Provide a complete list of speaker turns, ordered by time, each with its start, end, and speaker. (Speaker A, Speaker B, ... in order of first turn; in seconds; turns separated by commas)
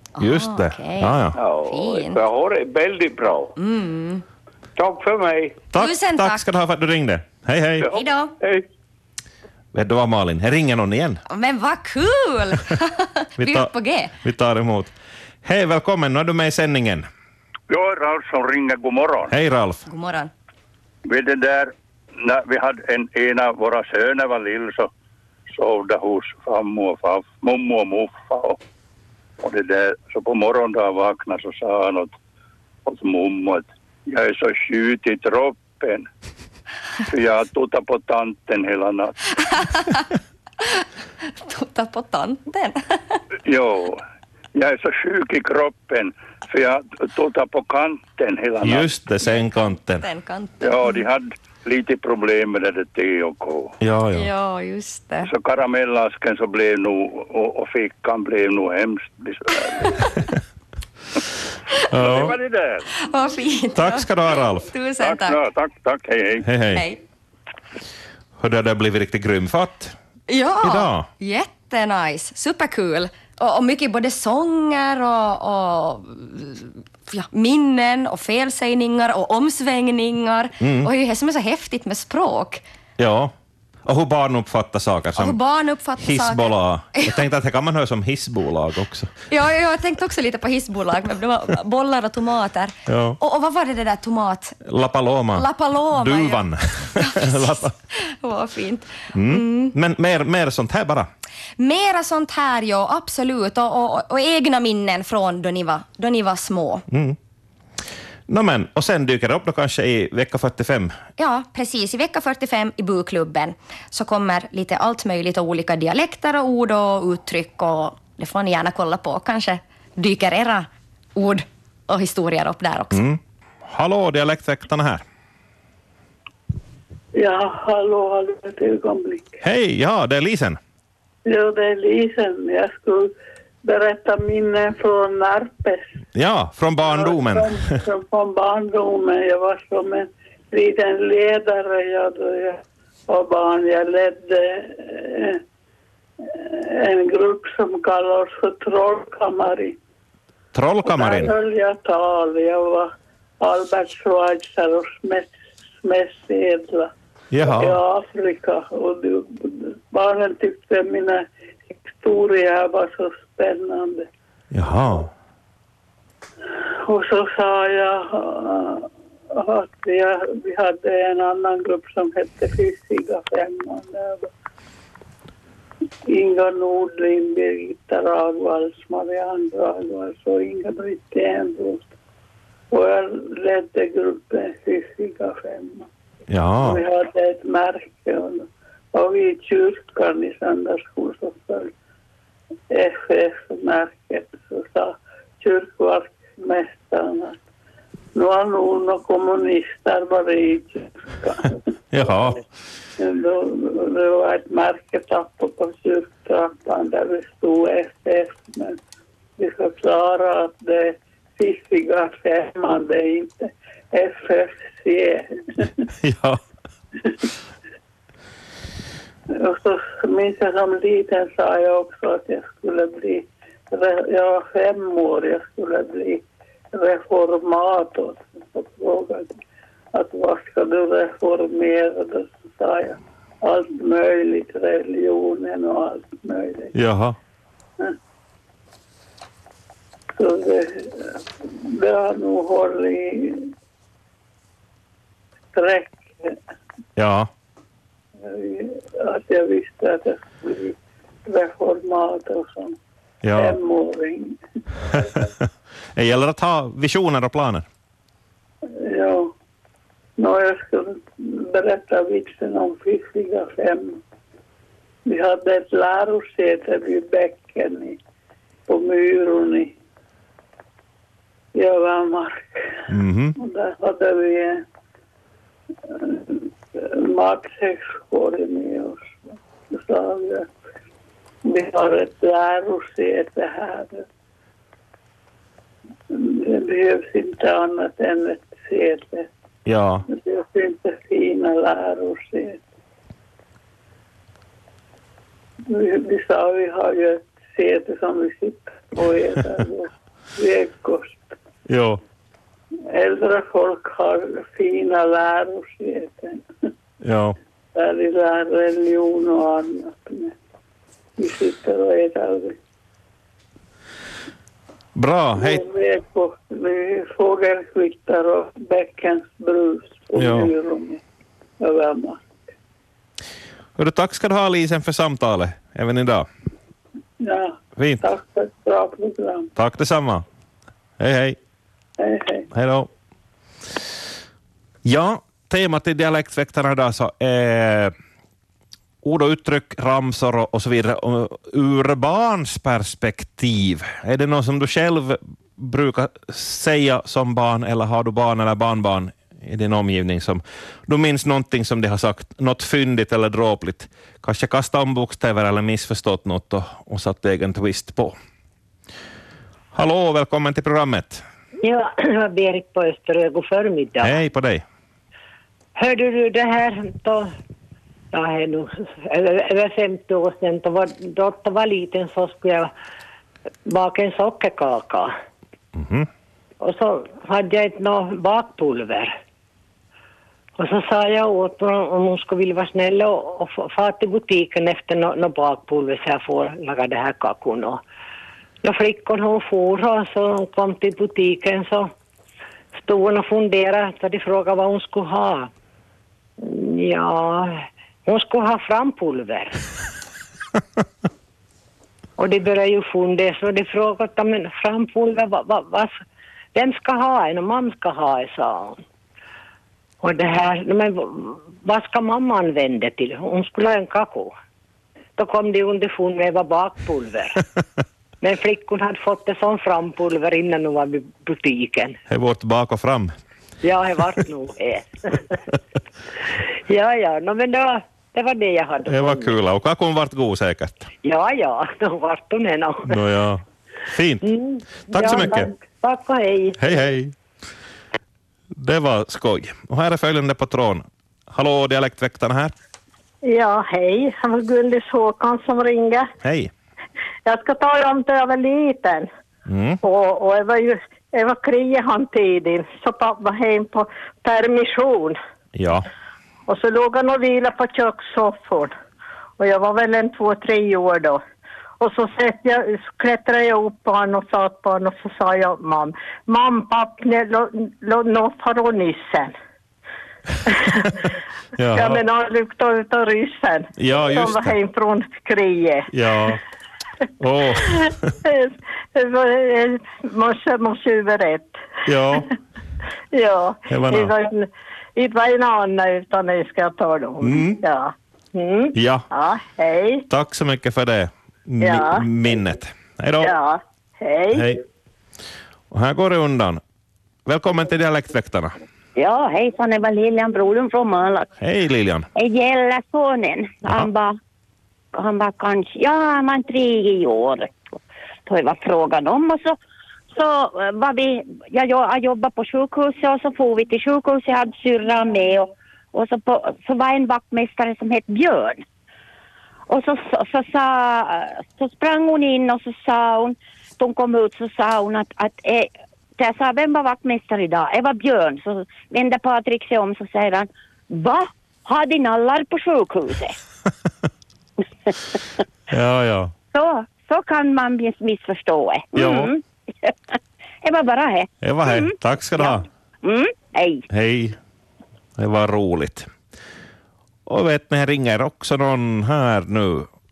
Speaker A: 0.2-2.2, Speaker B: 0.2-1.4, Speaker C: 1.4-3.5, Speaker A: 3.6-4.2, Speaker C: 4.8-5.6, Speaker B: 5.7-7.9, Speaker A: 5.8-6.5, Speaker C: 7.8-8.7, Speaker A: 7.9-8.3, Speaker B: 9.7-11.2, Speaker A: 11.3-14.1, Speaker B: 13.4-13.7, Speaker B: 14.2-14.9, Speaker B: 15.4-17.1, Speaker D: 17.7-19.3, Speaker B: 19.3-19.9, Speaker A: 19.9-20.3, Speaker D: 21.1-24.9, Speaker D: 25.5-28.6, Speaker D: 29.4-32.1, Speaker D: 32.9-36.1, Speaker D: 37.1-39.2, Speaker A: 39.5-40.1, Speaker A: 40.6-43.2, Speaker D: 43.5-44.0, Speaker D: 44.5-48.9, Speaker B: 48.6-50.0, Speaker A: 49.2-51.1, Speaker D: 50.6-53.8, Speaker B: 53.8-54.3, Speaker A: 54.1-55.3, Speaker D: 55.2-60.0, Speaker B: 61.9-62.4, Speaker D: 62.0-62.9, Speaker A: 63.0-65.4, Speaker B: 63.7-64.7, Speaker D: 65.0-66.5, Speaker B: 66.4-66.8, Speaker A: 66.7-67.0, Speaker B: 68.4-70.0, Speaker A: 70.3-82.6, Speaker B: 70.6-71.1, Speaker B: 80.6-80.9, Speaker B: 83.0-83.3, Speaker B: 83.9-85.4, Speaker A: 85.2-87.2, Speaker B: 86.0-89.1, Speaker A: 89.3-94.6, Speaker B: 92.9-93.2, Speaker B: 94.7-97.7, Speaker A: 95.3-99.8, Speaker B: 99.1-101.1, Speaker A: 101.6-106.8, Speaker B: 106.9-107.2, Speaker B: 108.3-111.0, Speaker A: 111.2-123.0, Speaker B: 122.9-125.0, Speaker E: 127.2-129.4, Speaker B: 129.4-130.6, Speaker E: 131.3-133.1, Speaker E: 133.6-135.8, Speaker B: 136.2-137.8, Speaker E: 136.8-145.4, Speaker E: 146.3-149.8, Speaker B: 150.5-151.3, Speaker E: 150.8-156.9, Speaker B: 157.3-157.8, Speaker E: 157.5-164.1, Speaker B: 164.5-165.1, Speaker E: 166.9-174.3, Speaker E: 176.1-181.9, Speaker E: 182.7-185.9, Speaker B: 186.3-186.8, Speaker E: 186.6-191.7, Speaker E: 192.7-197.4, Speaker E: 198.2-201.6, Speaker B: 201.9-202.4, Speaker E: 203.0-208.8, Speaker E: 209.4-215.7, Speaker B: 216.0-216.4, Speaker E: 219.3-229.4, Speaker E: 229.9-236.7, Speaker B: 236.7-237.2, Speaker E: 240.2-243.5, Speaker E: 245.5-246.4, Speaker B: 247.0-247.3, Speaker E: 248.2-250.8, Speaker E: 251.3-252.8, Speaker B: 253.2-253.6, Speaker E: 253.3-254.4, Speaker B: 256.0-257.6, Speaker E: 258.7-259.3, Speaker E: 260.2-264.0, Speaker E: 265.1-268.0, Speaker E: 268.7-269.8, Speaker E: 271.6-272.7, Speaker B: 272.9-273.4, Speaker E: 273.4-274.6, Speaker E: 275.9-280.5, Speaker E: 281.4-284.1, Speaker E: 286.1-289.3, Speaker B: 289.7-290.1, Speaker E: 290.1-292.6, Speaker E: 295.7-301.3, Speaker B: 301.7-302.0, Speaker E: 302.9-306.4, Speaker B: 307.0-307.4, Speaker E: 307.8-310.3, Speaker E: 311.2-312.6, Speaker B: 314.9-315.6, Speaker E: 315.4-321.0, Speaker B: 320.2-320.5, Speaker E: 321.6-322.2, Speaker B: 323.8-326.3, Speaker E: 327.2-329.5, Speaker B: 327.8-328.0, Speaker B: 329.6-330.2, Speaker B: 331.0-331.4, Speaker E: 332.0-332.5, Speaker B: 332.5-332.9, Speaker B: 334.9-337.9, Speaker B: 339.0-358.2, Speaker B: 359.7-361.2, Speaker F: 361.6-364.2, Speaker B: 364.0-364.6, Speaker F: 365.8-367.3, Speaker F: 368.1-372.7, Speaker F: 373.7-375.1, Speaker B: 375.8-376.1, Speaker F: 376.6-379.1, Speaker F: 380.6-387.8, Speaker F: 388.6-391.9, Speaker F: 392.8-395.5, Speaker F: 396.4-399.6, Speaker F: 402.2-406.0, Speaker F: 406.5-408.8, Speaker F: 410.0-414.4, Speaker F: 415.2-417.4, Speaker F: 418.2-422.0, Speaker B: 422.1-423.1, Speaker F: 423.6-425.3, Speaker F: 426.7-429.3, Speaker B: 428.9-430.9, Speaker F: 431.0-433.0, Speaker B: 432.9-434.2, Speaker F: 434.2-436.6, Speaker B: 434.9-435.5, Speaker B: 436.6-437.1, Speaker B: 438.6-442.5, Speaker G: 443.2-446.1, Speaker B: 446.2-446.5, Speaker G: 447.3-449.1, Speaker B: 449.5-449.8, Speaker G: 449.8-455.2, Speaker B: 455.6-455.9, Speaker G: 456.5-458.7, Speaker G: 459.4-461.2, Speaker G: 461.8-469.4, Speaker G: 470.5-470.9, Speaker B: 471.6-472.0, Speaker G: 471.7-475.9, Speaker B: 473.8-474.6, Speaker B: 475.9-476.4, Speaker B: 477.2-478.1, Speaker G: 477.7-481.6, Speaker B: 481.9-482.3, Speaker G: 483.1-490.1, Speaker B: 483.7-484.1, Speaker B: 487.2-487.6, Speaker B: 488.7-489.1, Speaker B: 490.1-493.3, Speaker G: 491.6-492.1, Speaker G: 493.2-494.5, Speaker B: 494.3-494.6, Speaker B: 495.7-496.6, Speaker B: 497.3-498.5, Speaker H: 499.0-501.3, Speaker B: 501.4-502.1, Speaker H: 502.1-504.2, Speaker H: 504.9-507.5, Speaker H: 508.3-509.6, Speaker H: 510.1-518.6, Speaker H: 519.7-533.4, Speaker B: 535.7-536.3, Speaker H: 536.5-539.9, Speaker B: 539.0-539.3, Speaker H: 540.6-543.9, Speaker B: 541.4-542.6, Speaker B: 543.9-544.4, Speaker B: 545.2-546.1, Speaker B: 547.3-549.9